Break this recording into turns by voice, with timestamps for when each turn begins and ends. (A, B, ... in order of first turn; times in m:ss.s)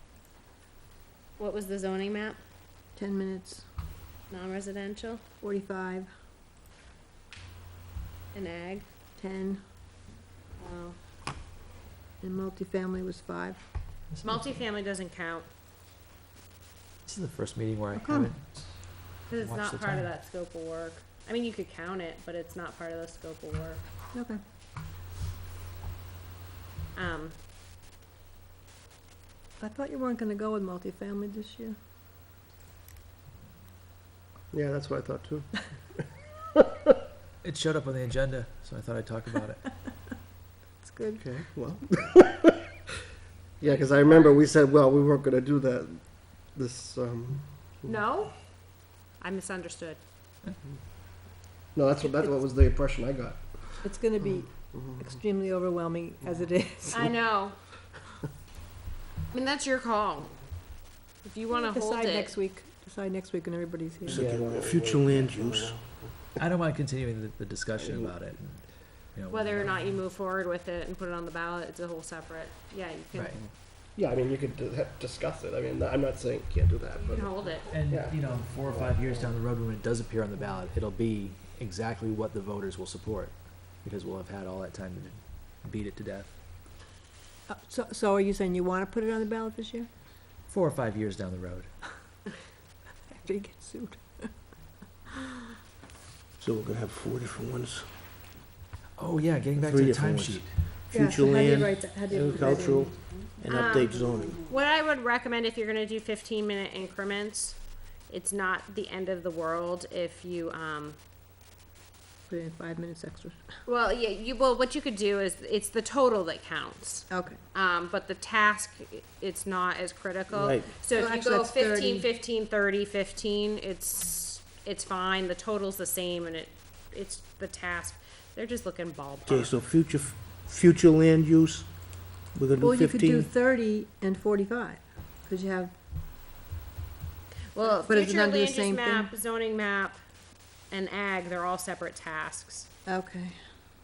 0:01.4-0:02.4 A
0:03.0-0:03.6 B
0:04.3-0:05.2 A
0:05.4-0:06.1 B
0:08.3-0:08.9 A
0:09.2-0:09.6 B
0:10.6-0:11.0 A
0:12.2-0:13.7 B
0:14.1-0:14.6 C
0:14.2-0:15.5 A
0:17.0-0:20.1 C
0:17.9-0:18.3 B
0:19.3-0:23.8 A
0:24.1-0:24.4 B
0:26.9-0:27.4 A
0:29.6-0:31.8 B
0:34.5-0:36.9 D
0:37.4-0:39.6 C
0:40.8-0:41.2 B
0:41.2-0:42.7 D
0:43.6-0:48.0 D
0:47.9-0:48.4 A
0:49.2-0:50.0 A
0:51.7-0:53.8 D
0:53.8-0:57.2 B
0:54.7-0:55.1 D
0:56.9-0:57.6 A
0:59.3-1:00.4 A
1:01.2-1:02.4 A
1:01.5-1:04.3 B
1:04.0-1:06.4 D
1:04.1-1:05.8 E
1:06.4-1:10.0 C
1:07.8-1:08.1 D
1:09.3-1:13.4 A
1:13.1-1:13.4 C
1:14.0-1:19.2 D
1:17.0-1:17.7 A
1:17.6-1:26.4 C
1:27.5-1:29.9 B
1:30.5-1:31.7 C
1:33.1-1:34.3 B
1:36.4-1:37.9 E
1:39.0-1:40.8 C
1:39.6-1:44.4 E
1:40.9-1:42.9 B
1:43.5-1:51.0 A
1:52.3-1:53.4 B
1:53.7-2:09.5 A
1:57.1-1:57.4 B
2:00.3-2:00.7 E
2:00.9-2:02.1 B
2:09.3-2:13.3 E
2:12.6-2:15.7 B
2:17.5-2:20.0 A
2:17.7-2:19.1 B
2:20.7-2:22.7 A
2:22.9-2:23.4 B